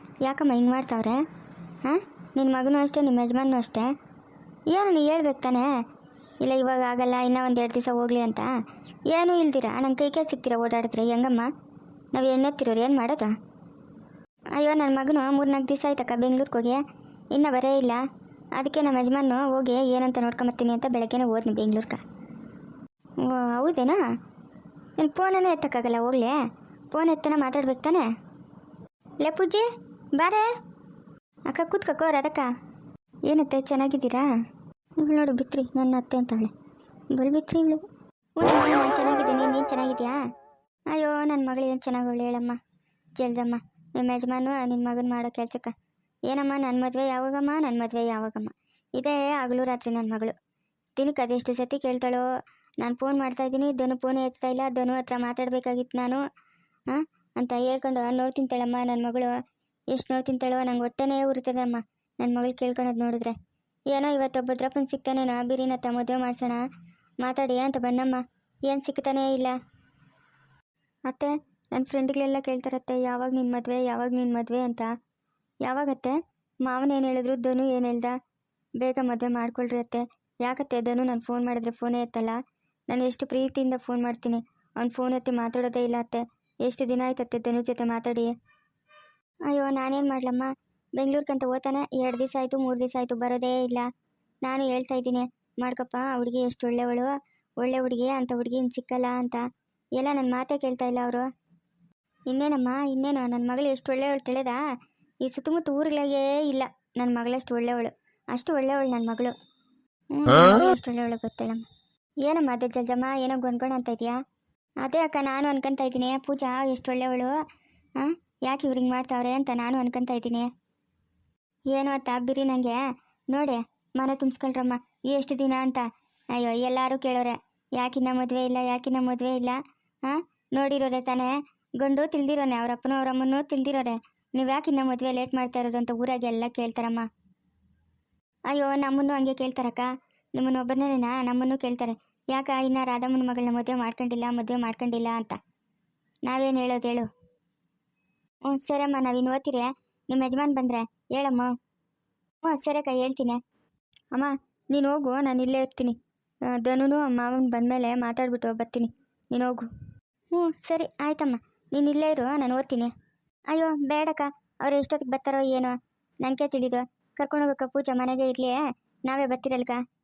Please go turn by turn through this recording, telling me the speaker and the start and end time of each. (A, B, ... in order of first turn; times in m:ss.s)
0:00.2-0:01.2 A
0:01.8-0:03.9 A
0:04.7-0:05.8 A
0:06.4-0:08.5 A
0:09.1-0:11.5 A
0:12.1-0:13.3 A
0:14.6-0:16.8 A
0:17.3-0:18.0 A
0:18.6-0:22.0 A
0:23.2-0:24.0 A
0:25.0-0:26.4 A
0:26.9-0:28.1 A
0:29.2-0:30.5 A
0:31.5-0:32.5 A
0:33.3-0:34.3 A
0:35.0-0:36.5 A
0:37.1-0:37.8 A
0:38.4-0:40.2 A
0:40.9-0:42.6 A
0:43.2-0:45.7 A
0:46.3-0:50.3 A
0:51.0-0:52.3 A
0:52.8-0:56.2 A
0:56.9-0:59.4 A
0:59.9-1:03.4 A
1:03.9-1:06.6 A
1:07.2-1:09.6 A
1:11.1-1:14.9 A
1:15.6-1:18.2 A
1:18.8-1:28.3 A
1:29.5-1:33.9 A
1:34.4-1:39.4 A
1:40.0-1:41.3 A
1:42.3-1:44.6 A
1:45.2-1:49.3 A
1:50.1-1:51.7 A
1:52.2-1:54.2 A
1:54.8-1:57.4 A
1:58.0-2:00.5 A
2:01.7-2:17.1 A
2:18.5-2:25.4 A
2:26.2-2:27.1 A
2:28.4-2:31.5 A
2:32.4-2:33.4 A
2:34.1-2:36.0 A
2:36.5-2:39.7 A
2:40.3-2:42.9 A
2:43.5-2:49.8 A